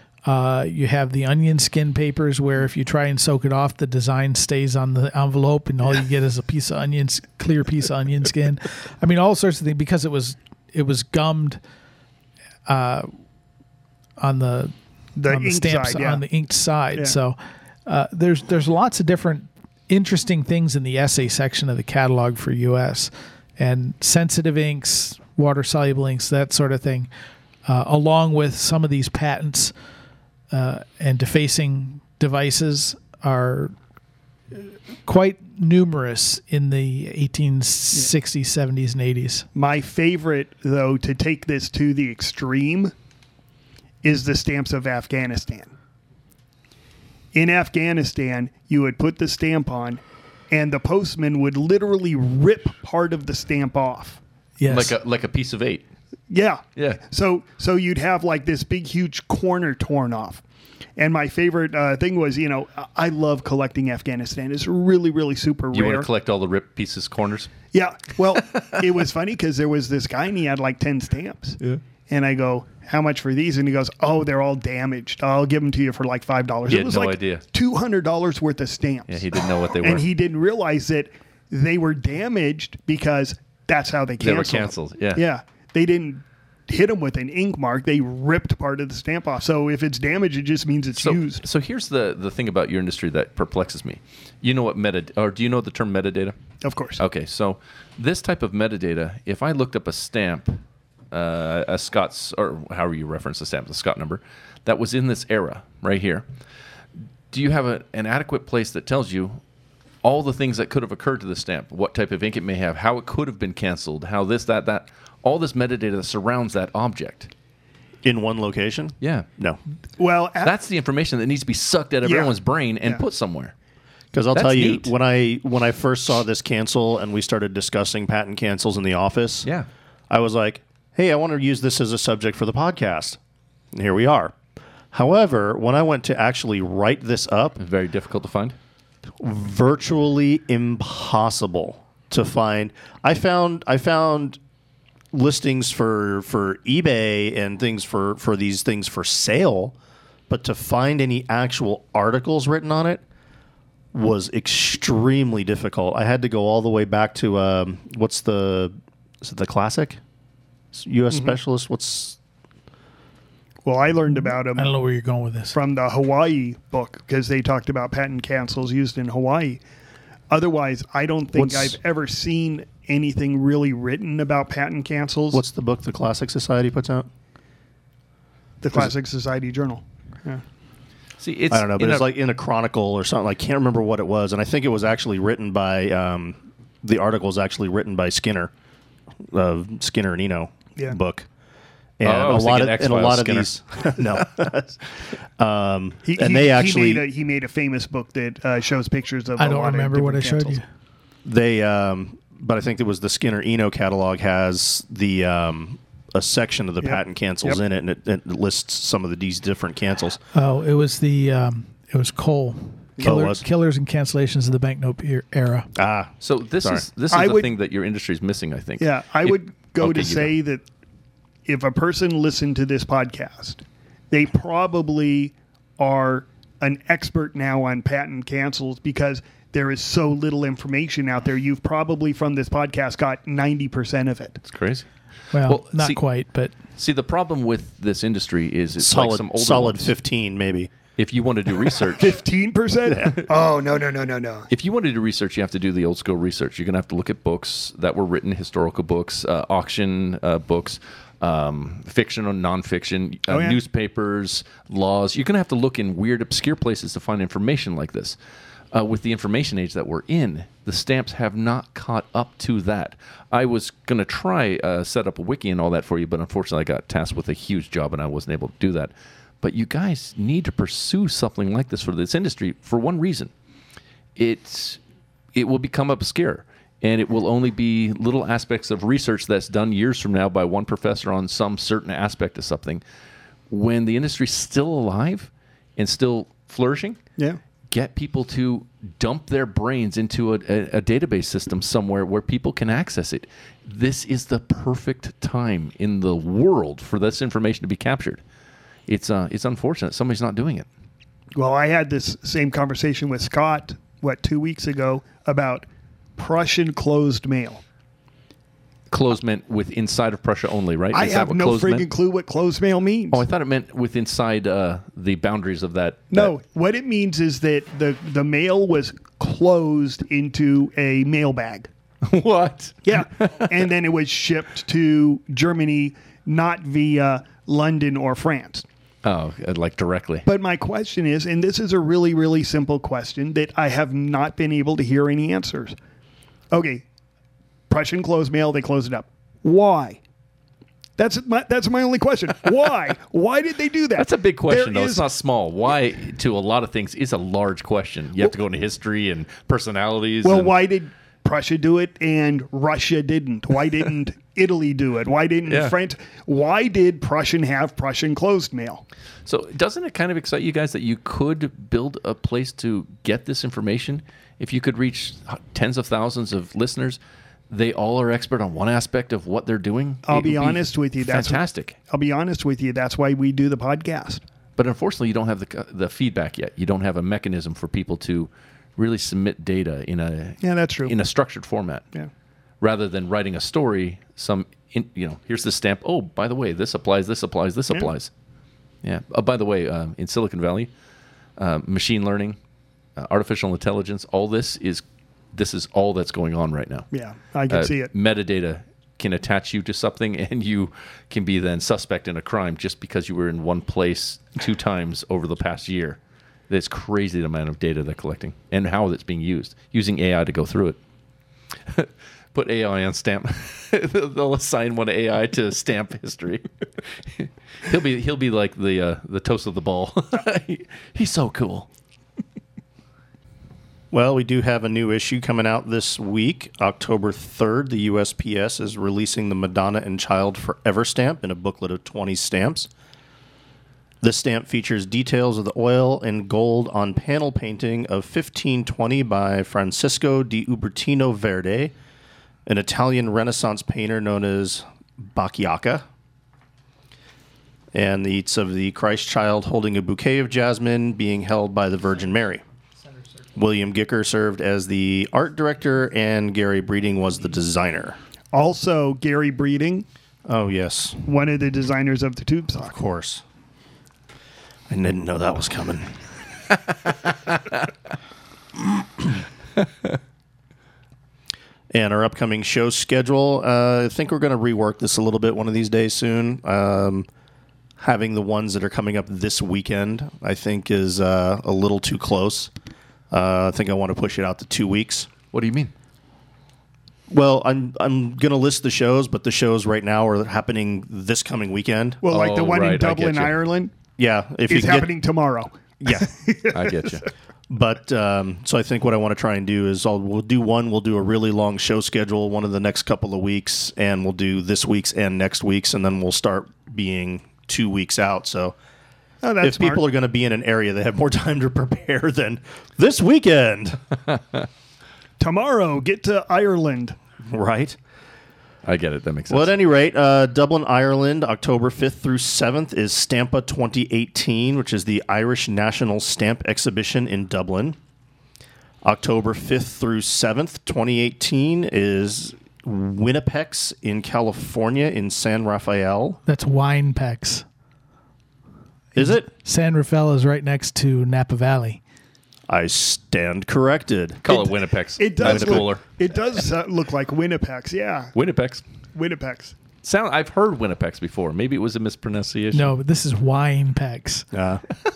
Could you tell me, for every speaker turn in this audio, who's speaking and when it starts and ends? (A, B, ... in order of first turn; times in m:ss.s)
0:00.2-0:11.6 A
0:12.6-0:13.1 A
0:14.2-0:14.7 A
0:15.2-0:16.2 B
0:15.2-0:27.1 A
0:27.6-0:29.7 A
0:30.5-0:33.7 A
0:34.5-0:39.4 A
0:39.5-0:42.9 B
0:44.0-0:45.7 B
0:47.3-0:54.2 B
0:54.6-0:54.9 A
0:54.7-0:55.8 C
0:56.3-1:00.4 B
0:56.8-0:57.0 C
1:01.0-1:06.1 B
1:05.7-1:07.5 C
1:07.7-1:11.6 B
1:12.1-1:19.2 B
1:16.7-1:17.4 C
1:19.1-1:20.0 C
1:19.8-1:31.4 B
1:24.2-1:25.2 C
1:31.0-1:36.3 C
1:36.6-1:37.0 B
1:37.0-1:40.6 C
1:41.1-1:46.2 C
1:47.3-1:49.4 C
1:50.0-1:57.3 C
1:58.0-1:59.6 D
1:59.0-1:59.3 C
2:00.0-2:00.5 B
2:00.4-2:03.5 C
2:02.0-2:03.0 B
2:04.1-2:09.5 D
2:04.3-2:04.9 C
2:10.1-2:13.2 D
2:13.7-2:14.4 D
2:14.9-2:17.6 D
2:17.6-2:18.6 C
2:19.2-2:24.4 D
2:25.1-2:29.8 D
2:30.3-2:33.0 D
2:33.9-2:40.0 D
2:40.7-2:42.2 D
2:43.6-2:44.7 B
2:44.1-2:45.6 A
2:45.5-2:49.6 B
2:50.3-2:55.4 B
2:51.3-2:51.8 D
2:55.3-2:57.1 D
2:58.6-3:00.4 B
3:01.2-3:02.1 C
3:01.5-3:08.5 D
3:09.3-3:11.3 D
3:12.0-3:14.8 D
3:12.0-3:13.5 C
3:15.4-3:17.0 D
3:16.0-3:20.6 B
3:19.4-3:20.6 A
3:21.2-3:30.2 D
3:26.8-3:27.6 B
3:30.3-3:35.7 A
3:33.0-3:33.4 D
3:35.8-3:36.8 D
3:36.2-3:40.3 C
3:37.1-3:37.5 B
3:38.8-3:40.6 B
3:41.4-3:54.4 B
3:54.4-3:54.8 C
3:55.3-3:56.5 A
3:55.4-3:56.0 C
3:56.8-3:59.9 C
3:58.8-4:00.7 D
4:01.0-4:02.2 C
4:02.0-4:04.5 B
4:04.5-4:18.2 C
4:13.3-4:13.6 B
4:18.7-4:33.3 C
4:34.2-4:34.8 C
4:35.3-4:42.8 C
4:43.5-4:47.0 C
4:47.7-4:58.2 C
4:58.9-5:00.7 C
5:01.3-5:05.6 B
5:06.2-5:07.6 B
5:08.9-5:11.9 C
5:10.9-5:13.2 B
5:13.1-5:16.3 C
5:16.1-5:21.7 B
5:22.0-5:23.3 C
5:22.8-5:28.6 B
5:29.0-5:30.3 C
5:30.2-5:35.8 B
5:36.5-5:36.8 B
5:37.7-5:40.0 B
5:41.0-5:45.0 B
5:44.0-5:50.5 C
5:50.2-5:58.8 B
5:55.5-5:55.7 C
5:59.2-6:07.0 C
6:07.5-6:11.8 C
6:10.0-6:14.2 B
6:14.6-6:21.8 C
6:20.4-6:20.9 B
6:22.6-6:28.1 C
6:28.8-6:30.7 C
6:31.4-6:32.4 C
6:33.0-6:36.9 C
6:36.9-6:37.9 B
6:37.5-6:50.8 C
6:51.7-6:56.4 C
6:57.1-7:01.7 C
7:03.9-7:12.7 D
7:14.0-7:21.7 D
7:22.4-7:25.8 D
7:27.7-7:32.4 D
7:33.3-7:38.0 D
7:38.3-7:39.8 B
7:40.2-7:41.0 D
7:41.0-7:42.8 B
7:42.7-7:43.2 D
7:44.7-7:46.0 D
7:51.7-7:57.1 D
7:57.8-8:02.5 D
8:03.1-8:05.1 D
8:05.3-8:05.7 C
8:07.1-8:12.0 D
8:12.0-8:13.7 B
8:12.1-8:13.4 C
8:14.0-8:14.9 D
8:14.5-8:17.0 B
8:16.5-8:17.0 C
8:17.5-8:28.6 D
8:29.2-8:29.8 B
8:29.4-8:33.8 D
8:35.2-8:37.0 B
8:37.3-8:37.8 D
8:38.6-8:39.5 C
8:39.3-8:47.8 D
8:48.8-8:56.2 D
8:56.2-8:57.4 A
8:58.9-8:59.3 D
8:58.9-9:01.8 A
9:02.5-9:04.2 D
9:04.2-9:05.8 C
9:04.3-9:08.1 B
9:05.2-9:05.6 D
9:08.1-9:08.6 C
9:08.9-9:09.5 B
9:09.8-9:12.7 C
9:12.5-9:14.2 A
9:14.3-9:14.6 D